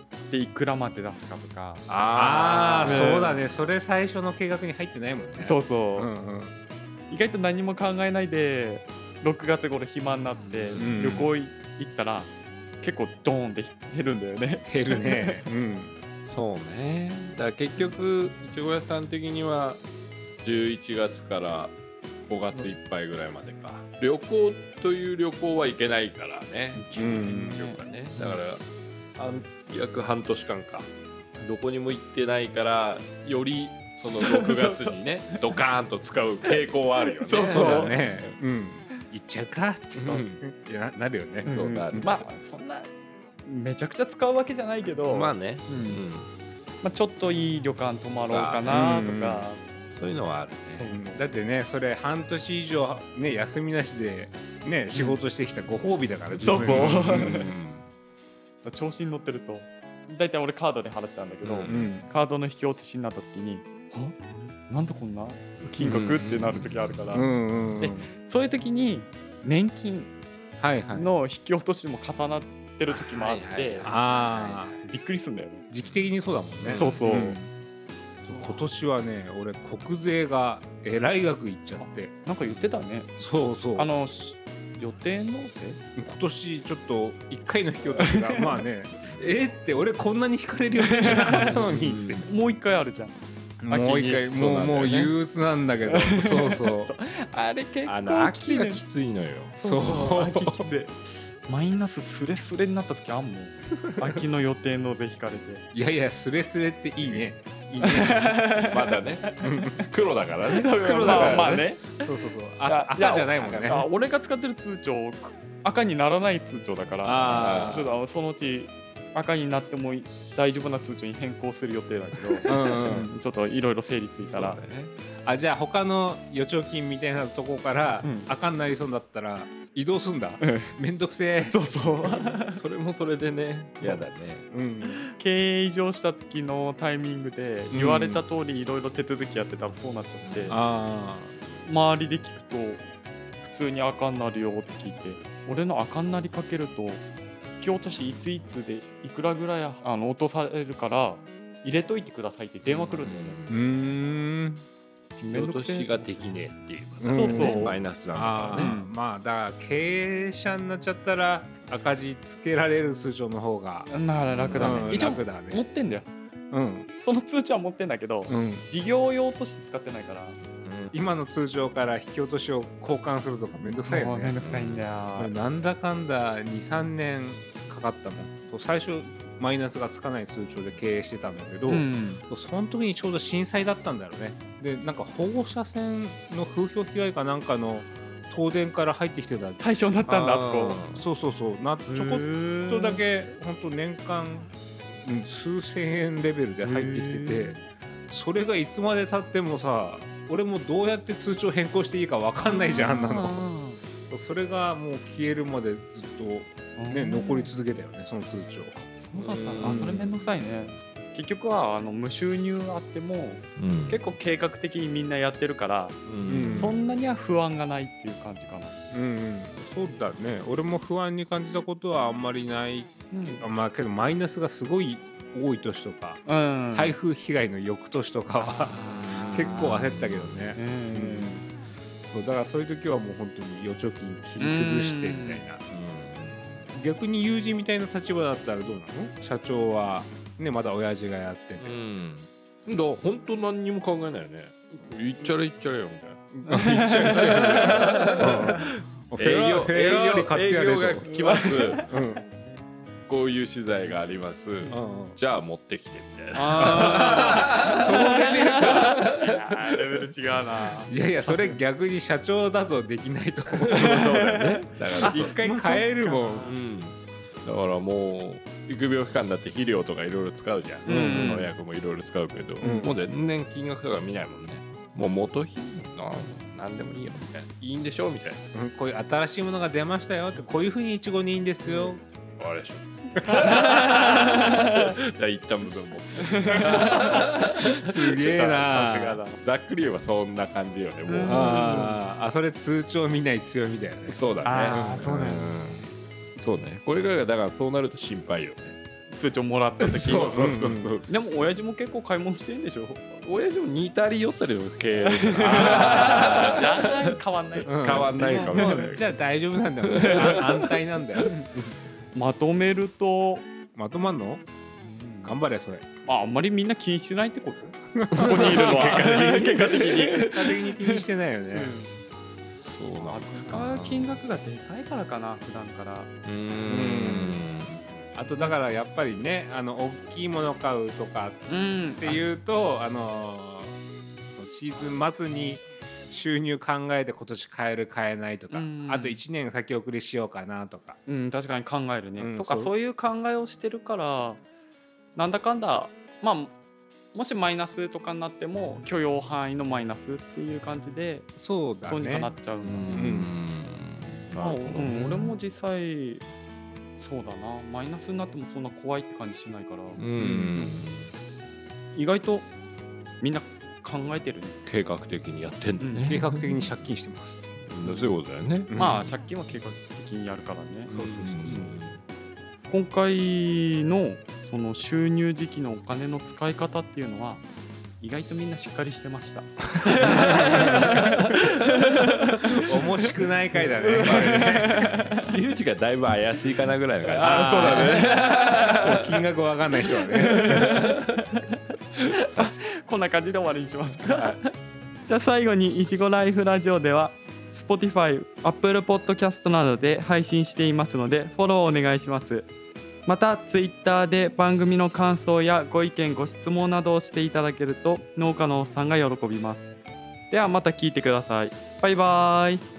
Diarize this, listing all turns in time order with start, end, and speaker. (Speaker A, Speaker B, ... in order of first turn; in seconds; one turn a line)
Speaker A: 0.3-1.9
Speaker B: 1.9-3.4
Speaker C: 2.1-6.5
Speaker A: 2.8-3.4
Speaker A: 5.4-6.1
Speaker A: 7.1-15.4
Speaker B: 10.4-11.1
Speaker C: 10.8-11.3
Speaker C: 14.7-16.0
Speaker B: 16.2-19.8
Speaker B: 20.4-21.8
Speaker B: 22.3-28.6
Speaker A: 26.8-28.4
Speaker C: 27.0-27.6
Speaker B: 29.2-38.4
Speaker A: 34.0-35.5
Speaker A: 37.1-38.0
Speaker C: 37.5-42.1
Speaker B: 40.0-40.4
Speaker B: 41.4-42.2
Speaker A: 41.4-42.9
Speaker A: 43.4-46.0
Speaker B: 45.1-46.3
Speaker A: 46.8-49.6
Speaker B: 48.3-49.1
Speaker C: 48.7-49.5
Speaker B: 49.9-50.9
Speaker A: 50.8-51.2
Speaker C: 50.9-57.5
Speaker A: 54.9-55.2
Speaker B: 56.3-57.9
Speaker A: 56.4-57.5
Speaker A: 58.6-70.1
Speaker B: 61.4-61.8
Speaker C: 61.7-62.1
Speaker B: 65.8-67.3
Speaker C: 67.1-68.1
Speaker C: 70.6-71.1
Speaker A: 70.9-73.9
Speaker B: 72.9-74.9
Speaker C: 73.8-74.8
Speaker A: 74.9-75.6
Speaker C: 75.7-77.5
Speaker B: 75.8-76.9
Speaker A: 76.7-77.4
Speaker C: 78.2-82.1
Speaker A: 81.8-83.1
Speaker B: 82.4-82.7
Speaker C: 83.2-83.9
Speaker A: 83.7-85.8
Speaker C: 86.0-92.3
Speaker A: 88.0-88.6
Speaker B: 88.9-89.5
Speaker A: 90.8-91.6
Speaker B: 91.4-92.3
Speaker A: 92.2-94.2
Speaker C: 93.6-96.9
Speaker B: 94.2-95.2
Speaker A: 95.8-98.8
Speaker C: 97.9-98.7
Speaker B: 98.5-99.6
Speaker A: 99.6-105.6
Speaker C: 99.6-100.7
Speaker C: 105.7-108.5
Speaker B: 107.0-107.3
Speaker A: 107.8-109.9
Speaker B: 108.7-109.3
Speaker C: 109.4-109.8
Speaker B: 109.9-111.7
Speaker A: 110.5-112.1
Speaker C: 110.7-113.9
Speaker A: 112.6-124.6
Speaker B: 113.4-113.8
Speaker C: 117.0-118.0
Speaker B: 117.3-117.9
Speaker C: 122.5-123.1
Speaker B: 124.2-125.0
Speaker C: 125.2-132.3
Speaker A: 128.0-128.3
Speaker A: 130.4-130.7
Speaker A: 131.4-132.6
Speaker B: 132.5-134.5
Speaker C: 133.8-135.0
Speaker A: 134.8-140.6
Speaker C: 137.7-138.2
Speaker B: 140.2-140.7
Speaker C: 140.5-141.3
Speaker A: 141.7-142.8
Speaker A: 143.4-147.1
Speaker A: 147.6-153.5
Speaker B: 152.6-153.7
Speaker C: 153.5-154.6
Speaker A: 155.2-156.2
Speaker B: 155.3-158.8
Speaker C: 157.0-163.9
Speaker A: 157.0-157.8
Speaker A: 158.5-158.9
Speaker A: 163.9-166.1
Speaker B: 164.3-165.1
Speaker C: 164.6-165.6
Speaker C: 166.5-166.9
Speaker A: 167.0-170.4
Speaker C: 168.3-168.7
Speaker B: 170.6-170.9
Speaker C: 170.9-174.3
Speaker A: 173.7-175.3
Speaker B: 174.4-174.9
Speaker C: 175.2-189.6
Speaker A: 181.7-182.2
Speaker A: 189.6-190.8
Speaker B: 190.1-191.1
Speaker C: 190.9-203.5
Speaker A: 191.9-193.0
Speaker A: 196.6-197.6
Speaker A: 202.4-203.8
Speaker C: 204.1-208.9
Speaker A: 206.8-207.5
Speaker A: 208.9-218.8
Speaker B: 209.1-210.2
Speaker C: 209.6-209.9
Speaker B: 213.6-214.2
Speaker B: 216.1-217.0
Speaker C: 216.2-216.8
Speaker C: 218.9-231.5
Speaker A: 223.1-223.4
Speaker A: 226.3-227.0
Speaker A: 228.4-229.8
Speaker B: 228.8-230.5
Speaker A: 230.5-231.4
Speaker C: 232.1-235.6
Speaker A: 234.4-235.5
Speaker B: 235.7-236.7
Speaker C: 236.7-241.8
Speaker B: 241.6-251.9
Speaker C: 246.3-252.2
Speaker A: 246.5-248.6
Speaker A: 251.3-251.9
Speaker B: 253.1-259.8
Speaker C: 254.7-255.2
Speaker A: 256.3-261.6
Speaker C: 256.6-259.0
Speaker C: 260.9-264.4
Speaker B: 263.6-265.4
Speaker A: 263.8-266.6
Speaker C: 264.9-266.5
Speaker B: 266.4-278.4
Speaker C: 270.9-271.4
Speaker A: 270.9-271.5
Speaker C: 272.6-273.0
Speaker C: 278.5-282.0
Speaker B: 281.6-287.5
Speaker A: 283.3-284.9
Speaker A: 286.4-289.4
Speaker C: 287.7-289.2
Speaker B: 289.4-292.0
Speaker A: 291.1-292.0
Speaker C: 291.3-294.2
Speaker B: 294.1-298.8
Speaker A: 294.4-295.6
Speaker A: 299.1-300.5
Speaker B: 299.8-301.3
Speaker C: 300.0-300.9
Speaker A: 301.1-303.1
Speaker B: 303.2-307.1
Speaker A: 305.0-308.9
Speaker C: 305.5-306.1
Speaker B: 307.6-309.1
Speaker C: 307.7-311.7
Speaker B: 309.8-310.7
Speaker A: 312.1-313.5
Speaker C: 313.8-314.4
Speaker A: 314.8-315.4
Speaker C: 315.2-315.8
Speaker A: 316.1-321.9
Speaker C: 317.9-321.8
Speaker B: 318.2-320.5
Speaker B: 322.6-324.2
Speaker A: 323.0-326.1
Speaker B: 326.2-327.8
Speaker C: 326.7-327.4
Speaker C: 328.1-333.8
Speaker A: 331.5-332.3
Speaker C: 334.4-341.0
Speaker A: 338.5-339.2
Speaker A: 341.1-344.4
Speaker C: 342.2-342.7
Speaker A: 345.1-346.6
Speaker A: 347.1-351.3
Speaker C: 351.4-352.4
Speaker A: 351.8-353.2
Speaker B: 352.6-355.3
Speaker C: 352.9-353.3
Speaker A: 354.3-356.2
Speaker A: 357.0-360.1
Speaker B: 360.0-361.1
Speaker C: 360.2-360.8
Speaker A: 361.9-362.5
Speaker A: 363.2-364.6
Speaker B: 364.7-366.8
Speaker A: 365.8-366.3
Speaker C: 366.1-368.1
Speaker B: 367.7-368.7
Speaker C: 368.7-369.0
Speaker A: 368.8-370.9
Speaker B: 370.9-372.0
Speaker C: 370.9-371.7
Speaker A: 372.7-377.4
Speaker A: 378.0-382.9
Speaker C: 380.1-381.1
Speaker B: 380.6-381.1
Speaker C: 382.6-384.9
Speaker A: 383.8-385.3
Speaker B: 384.0-384.7
Speaker B: 385.2-389.2
Speaker A: 387.0-388.2
Speaker C: 387.2-390.9
Speaker A: 390.0-391.4
Speaker A: 392.1-394.5
Speaker A: 395.1-402.5
Speaker A: 403.1-409.7
Speaker A: 410.3-412.6